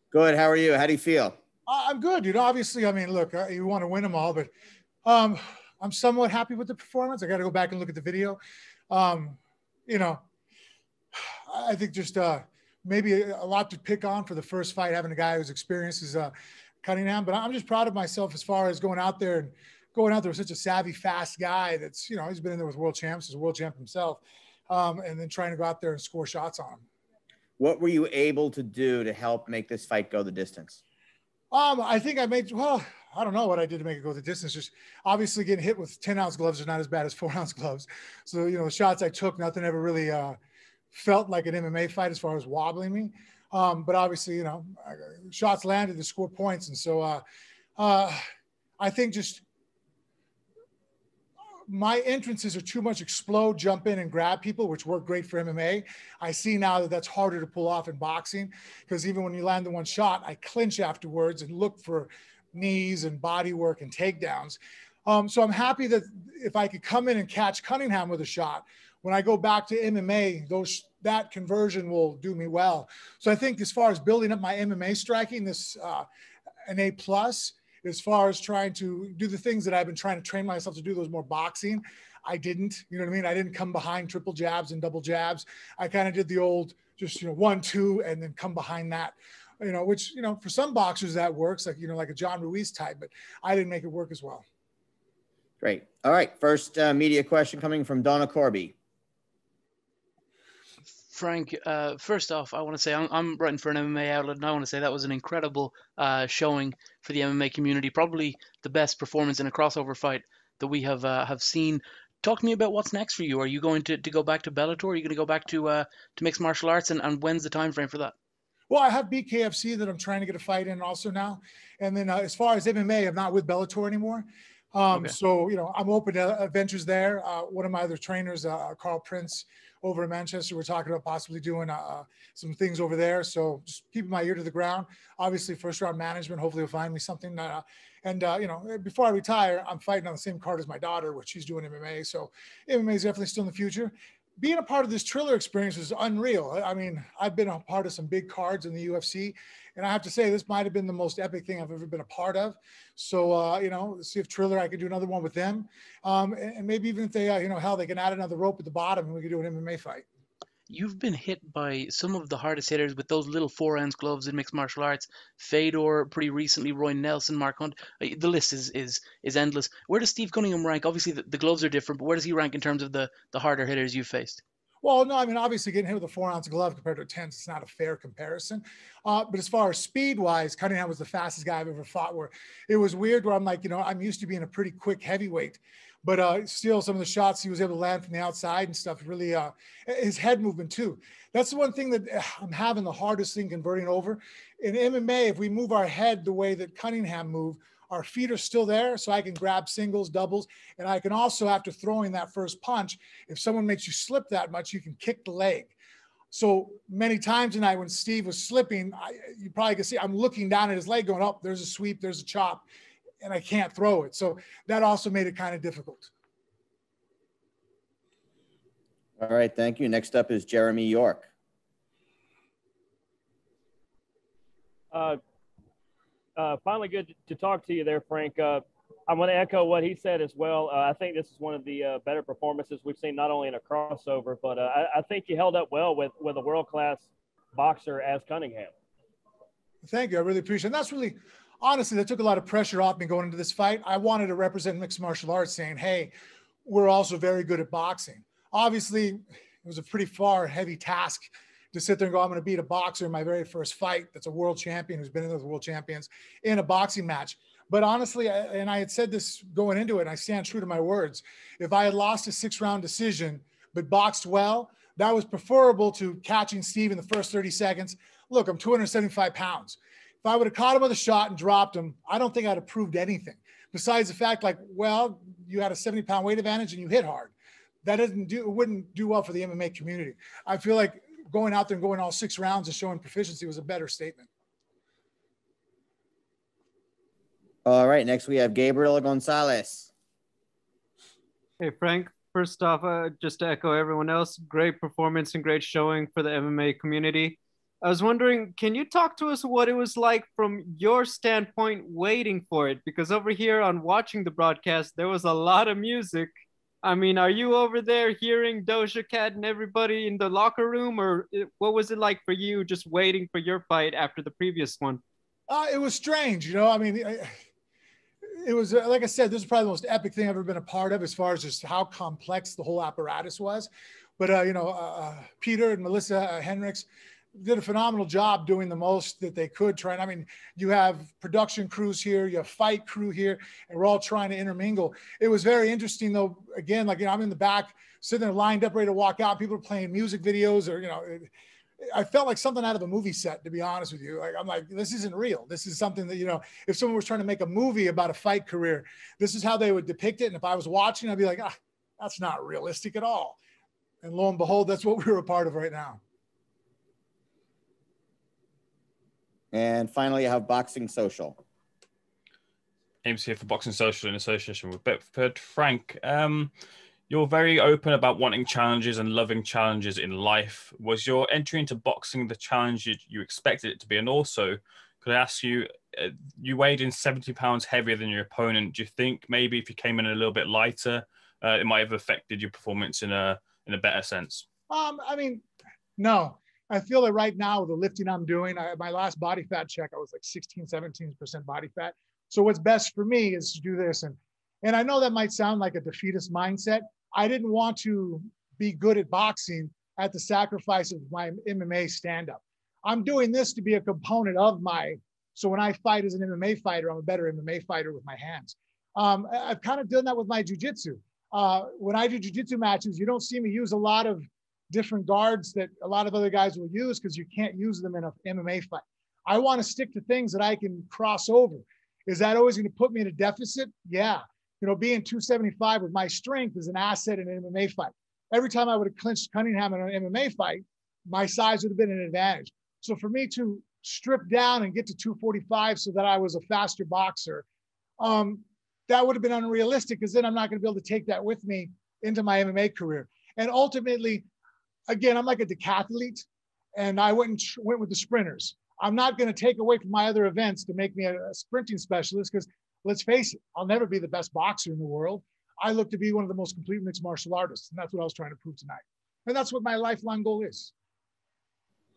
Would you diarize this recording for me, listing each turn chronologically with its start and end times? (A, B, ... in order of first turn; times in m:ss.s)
0:00.1-0:01.4 A
0:01.7-0:04.5 B
0:05.0-0:08.4 B
0:08.9-0:10.2 B
0:11.5-0:16.3 B
0:16.8-0:26.8 B
0:27.6-0:30.8 A
0:31.5-0:40.4 B
0:40.9-0:47.2 B
0:47.8-0:48.2 B
0:48.8-0:49.4 B
0:51.7-1:16.1 B
1:16.7-1:34.4 B
1:35.6-1:38.8 A
1:41.1-1:58.1 C
1:58.7-2:40.1 B
2:40.7-2:54.4 C
2:54.8-3:25.8 B
3:26.3-3:32.7 B
3:33.2-3:36.1 B
3:39.2-3:41.3 A
3:44.9-3:45.2 D
3:46.4-3:58.7 D
3:59.8-4:06.1 B
4:06.6-4:37.3 B
4:37.8-4:44.3 B
4:47.6-4:49.9 A
4:51.6-5:06.3 E
5:06.8-5:15.0 E
5:15.5-5:17.3 B
5:18.3-5:41.3 B
5:41.8-5:53.4 B
5:54.0-5:56.0 B
5:59.5-6:01.4 A
6:03.0-6:06.5 F
6:07.1-6:24.4 F
6:24.7-6:25.4 B
6:26.0-7:17.5 B
7:18.0-7:24.3 B
7:24.9-7:40.7 B